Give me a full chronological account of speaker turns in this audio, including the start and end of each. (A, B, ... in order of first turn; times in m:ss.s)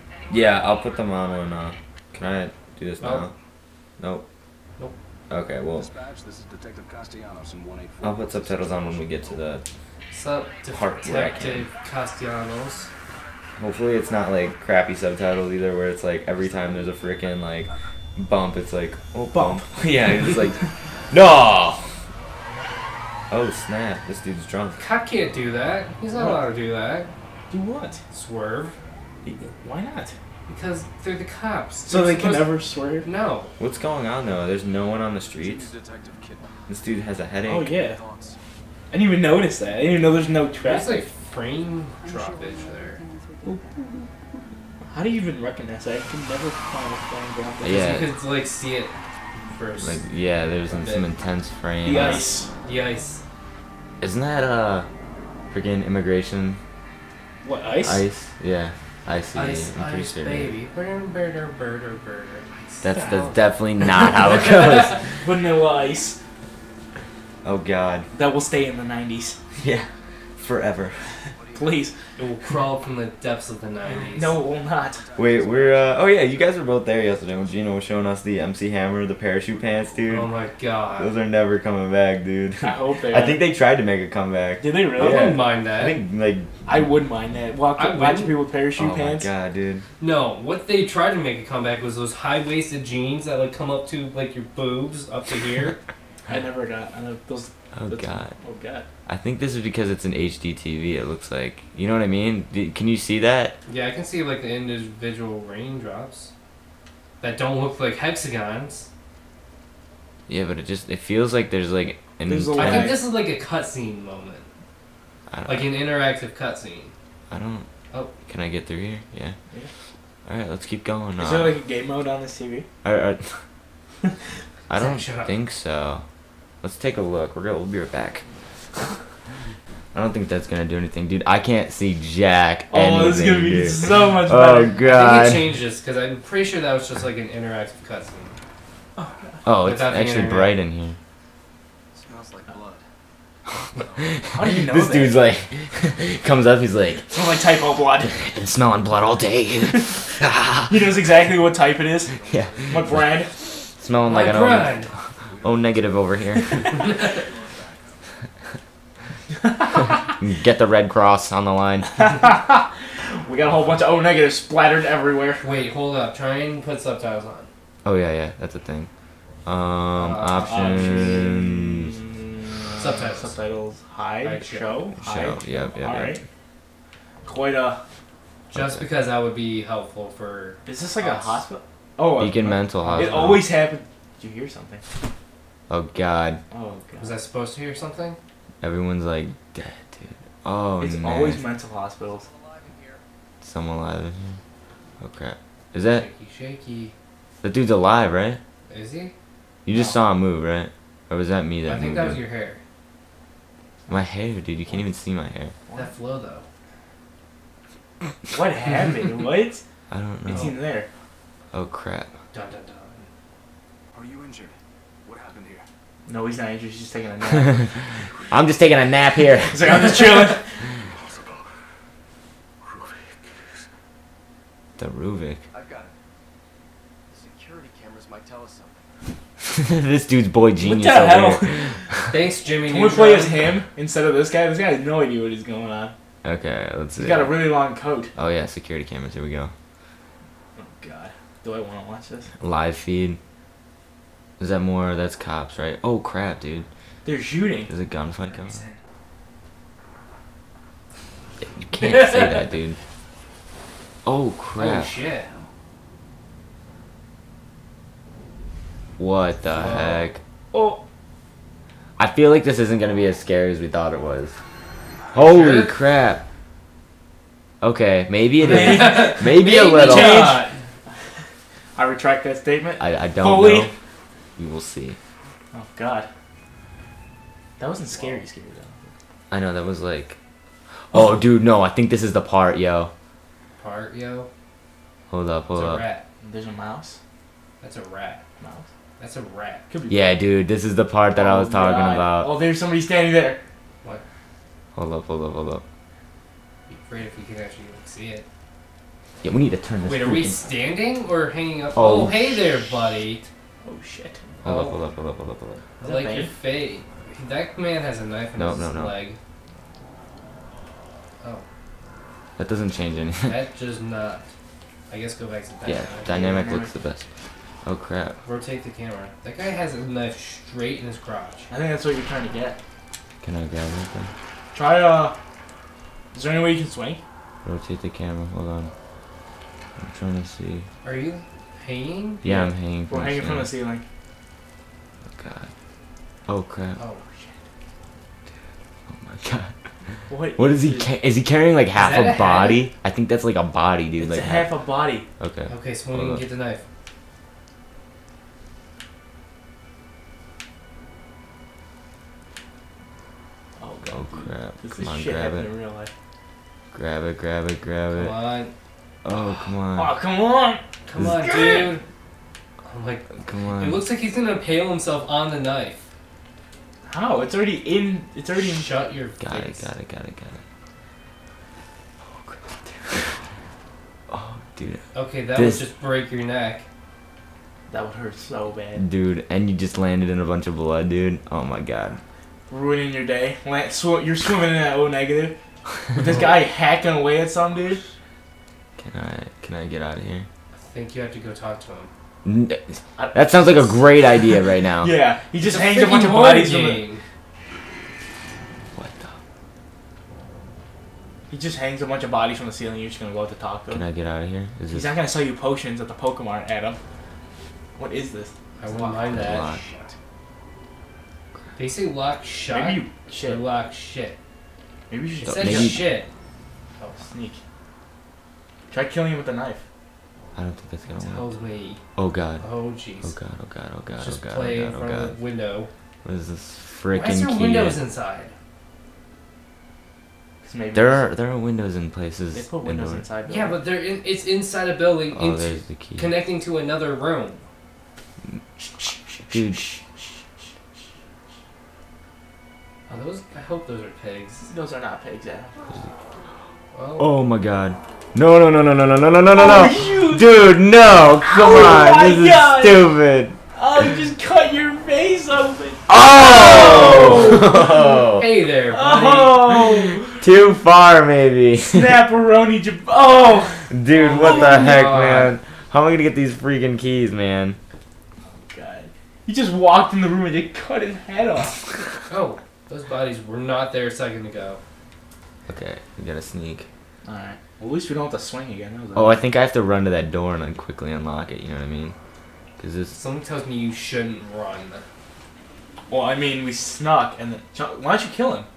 0:00.3-0:03.3 A
0:03.0-0:03.3 B
0:04.0-0:04.2 A
0:05.3-0:05.9 A
0:05.7-0:09.6 C
0:08.0-0:09.6 A
0:10.1-0:12.9 B
0:10.7-0:11.7 A
0:13.6-0:21.9 A
0:14.0-0:14.5 C
0:16.3-0:17.5 C
0:19.3-0:19.6 D
0:20.3-0:20.7 D
0:23.3-0:24.8 A
0:24.8-0:27.1 B
0:26.1-0:26.4 D
0:27.5-0:28.0 D
0:28.1-0:28.8 B
0:29.6-0:30.1 D
0:30.5-0:33.5 B
0:31.8-0:33.1 D
0:33.6-0:35.7 A
0:35.4-0:36.6 C
0:36.7-0:37.7 A
0:37.4-0:38.0 D
0:37.7-0:38.4 C
0:38.9-0:41.0 D
0:40.1-0:40.8 C
0:40.6-0:43.0 B
0:42.0-0:44.0 C
0:44.9-0:47.9 D
0:47.6-0:48.1 A
0:47.7-0:50.0 B
0:49.8-0:52.3 A
0:50.7-0:51.1 B
0:51.8-0:52.5 D
0:52.0-0:53.2 B
0:54.0-0:54.9 A
0:55.5-0:56.6 A
0:57.4-0:58.0 D
0:57.8-1:00.5 A
0:59.3-1:03.4 B
1:02.8-1:05.2 A
1:04.0-1:05.1 B
1:05.2-1:06.2 D
1:07.4-1:08.1 A
1:08.1-1:09.4 D
1:09.6-1:11.1 A
1:11.2-1:12.2 C
1:11.5-1:12.0 D
1:12.2-1:14.4 B
1:13.9-1:15.1 D
1:14.2-1:17.8 C
1:15.2-1:20.3 A
1:19.2-1:20.3 C
1:20.1-1:21.1 B
1:21.0-1:26.6 A
1:22.6-1:23.4 D
1:24.6-1:25.4 D
1:24.9-1:26.0 B
1:26.6-1:29.3 D
1:27.7-1:28.4 B
1:28.7-1:29.8 A
1:30.0-1:35.8 B
1:36.3-1:38.8 D
1:37.7-1:38.4 A
1:39.0-1:43.6 A
1:43.6-1:46.3 B
1:47.2-1:48.9 B
1:50.3-1:53.0 A
1:52.3-1:53.0 D
1:52.5-1:54.5 B
1:55.3-1:55.7 A
1:55.4-1:56.9 B
1:57.3-1:57.6 A
1:58.2-1:59.4 A
2:00.2-2:01.6 A
2:01.2-2:02.7 D
2:02.8-2:03.4 A
2:04.7-2:06.0 A
2:04.7-2:05.3 B
2:06.6-2:08.2 A
2:09.9-2:15.5 A
2:12.7-2:14.8 D
2:14.8-2:18.4 B
2:19.0-2:19.4 D
2:19.4-2:21.0 A
2:19.6-2:20.5 B
2:21.9-2:22.8 C
2:23.5-2:24.5 C
2:24.1-2:27.3 A
2:24.3-2:25.2 D
2:27.1-2:28.1 D
2:28.1-2:30.9 A
2:29.7-2:30.1 D
2:30.7-2:33.5 D
2:31.9-2:32.9 C
2:32.3-2:33.1 A
2:33.8-2:34.8 A
2:34.0-2:34.9 B
2:34.6-2:38.0 C
2:35.4-2:36.7 A
2:36.7-2:37.2 B
2:39.4-2:40.1 D
2:40.2-2:41.9 A
2:41.9-2:45.5 D
2:45.4-2:47.5 B
2:47.8-2:48.9 A
2:49.4-2:51.9 A
2:50.0-2:51.2 B
2:50.3-2:56.2 D
2:52.8-2:53.4 B
2:54.2-2:54.8 B
2:55.0-2:56.2 A
2:57.2-2:57.8 D
2:58.5-3:01.4 B
2:58.5-2:58.8 A
3:00.6-3:04.8 D
3:02.2-3:03.5 A
3:02.8-3:03.3 B
3:05.7-3:06.4 A
3:06.5-3:07.1 D
3:07.0-3:08.2 B
3:08.6-3:11.4 A
3:10.8-3:12.3 D
3:12.1-3:13.0 C
3:13.4-3:14.4 A
3:15.0-3:16.1 A
3:15.8-3:16.9 B
3:17.4-3:18.4 A
3:18.7-3:19.1 B
3:19.6-3:22.2 A
3:19.7-3:20.0 D
3:21.6-3:22.6 B
3:23.9-3:25.6 A
3:25.7-3:26.5 B
3:28.3-3:29.6 D
3:29.9-3:30.5 A
3:30.3-3:30.9 D
3:30.3-3:30.6 B
3:31.5-3:32.1 A
3:32.3-3:33.1 B
3:33.9-3:35.6 C
3:36.0-3:37.9 D
3:38.3-3:39.9 A
3:39.5-3:40.6 D
3:40.7-3:41.4 C
3:42.6-3:43.6 C
3:44.8-3:45.4 A
3:45.5-3:45.9 C
3:47.1-3:48.8 C
3:49.6-3:52.2 A
3:50.6-3:51.7 D
3:52.1-3:53.5 B
3:52.7-3:55.9 D
3:56.2-3:57.5 A
3:57.0-3:58.1 D
3:58.2-3:59.5 A
4:00.6-4:02.3 D
4:02.4-4:03.2 A
4:04.4-4:06.7 A
4:07.0-4:07.7 D
4:07.7-4:08.7 A
4:08.3-4:08.8 D
4:11.5-4:12.8 A
4:11.8-4:12.4 B
4:14.0-4:14.9 A
4:14.6-4:15.3 B
4:19.0-4:20.2 A
4:19.5-4:20.1 B
4:20.5-4:20.8 D
4:22.0-4:24.4 A
4:25.1-4:26.2 A
4:25.2-4:25.7 B
4:27.6-4:30.4 A
4:28.4-4:30.5 D
4:28.5-4:30.5 B
4:31.8-4:33.7 D
4:32.8-4:33.7 A
4:34.4-4:35.0 A
4:35.5-4:36.1 D
4:37.6-4:38.9 D
4:37.9-4:38.2 B
4:39.3-4:40.2 A
4:40.8-4:42.9 A
4:43.6-4:44.3 B
4:45.1-4:45.8 A
4:45.5-4:46.0 B
4:46.2-4:47.0 D
4:47.6-4:48.2 B
4:48.4-4:48.7 D
4:49.0-4:49.6 B
4:49.7-4:50.1 D
4:49.9-4:52.4 A
4:51.1-4:53.4 D
4:54.7-4:55.6 A
4:56.7-4:58.2 B
4:59.2-5:00.5 A
4:59.8-5:03.3 B
5:01.7-5:02.4 A
5:03.6-5:04.2 D
5:04.4-5:05.6 A
5:04.4-5:04.8 B
5:05.8-5:06.3 D
5:05.8-5:09.2 B
5:08.3-5:09.0 A
5:12.4-5:13.4 A
5:13.2-5:14.3 B
5:14.9-5:16.1 B
5:15.6-5:17.1 A
5:16.0-5:16.8 D
5:17.6-5:18.2 A
5:18.2-5:21.5 B
5:21.5-5:22.6 D
5:23.2-5:24.1 A
5:24.5-5:25.1 D
5:26.1-5:27.0 D
5:27.4-5:28.7 A
5:29.8-5:30.6 A
5:30.8-5:32.2 B
5:32.2-5:33.5 A
5:32.2-5:33.8 D
5:35.2-5:35.5 A
5:36.3-5:36.8 A
5:36.8-5:37.0 B
5:37.1-5:37.4 D
5:38.9-5:39.5 A
5:40.1-5:40.9 D
5:40.3-5:44.5 A
5:41.7-5:42.7 B
5:44.0-5:45.0 D
5:45.2-5:46.2 A
5:45.5-5:46.6 B
5:53.6-5:55.9 D
5:53.9-5:55.5 A
5:56.7-5:58.2 A
5:57.9-5:58.5 B
5:59.0-5:59.9 A
5:59.7-6:01.8 D
6:00.8-6:01.8 B
6:02.6-6:05.8 B
6:03.2-6:03.8 A
6:06.9-6:08.7 D
6:08.4-6:09.7 B
6:09.2-6:10.4 A
6:12.1-6:13.2 A
6:14.1-6:14.8 A
6:14.9-6:16.6 B
6:15.3-6:15.7 A
6:17.7-6:18.8 D
6:18.7-6:22.0 A
6:22.5-6:25.4 D
6:25.9-6:27.8 D
6:26.0-6:26.3 B
6:28.8-6:30.3 A
6:30.5-6:31.9 B
6:32.2-6:34.9 A
6:33.0-6:34.3 D
6:34.8-6:36.9 D
6:35.4-6:37.0 B
6:38.8-6:39.2 A
6:41.3-6:43.8 D
6:43.7-6:45.0 A
6:44.7-6:46.8 D
6:47.8-6:49.9 D
6:48.6-6:49.5 B
6:49.1-6:49.6 A
6:51.6-6:54.2 B
6:52.5-6:53.4 D
6:54.9-6:55.8 D
6:55.2-6:56.1 B
6:55.2-6:55.9 A
6:56.8-6:57.4 D
6:58.7-6:59.6 D
7:00.4-7:01.3 A
7:00.9-7:01.8 B
7:02.0-7:02.5 A
7:02.4-7:03.2 B
7:03.0-7:05.2 A
7:04.0-7:05.7 B
7:06.0-7:07.8 A
7:06.9-7:08.3 B
7:10.4-7:11.1 D
7:10.7-7:13.0 A
7:12.3-7:13.6 D
7:13.3-7:17.4 B
7:15.1-7:16.2 A
7:19.3-7:19.7 A
7:19.3-7:19.8 D
7:22.9-7:24.5 B
7:24.4-7:25.5 D
7:26.7-7:27.2 B
7:27.0-7:33.4 A
7:29.3-7:30.3 D
7:31.2-7:32.9 D
7:33.5-7:37.6 D
7:35.9-7:38.3 A
7:36.2-7:39.5 B
7:38.7-7:40.1 D
7:39.7-7:42.0 A
7:41.7-7:44.8 D
7:43.7-7:47.6 A
7:43.9-7:45.4 B
7:48.3-7:51.8 D
7:52.1-7:54.6 B
7:55.5-7:56.7 A
7:57.0-7:59.2 D
7:59.0-8:01.9 A
8:02.6-8:03.0 A
8:02.9-8:04.8 B
8:05.9-8:08.5 D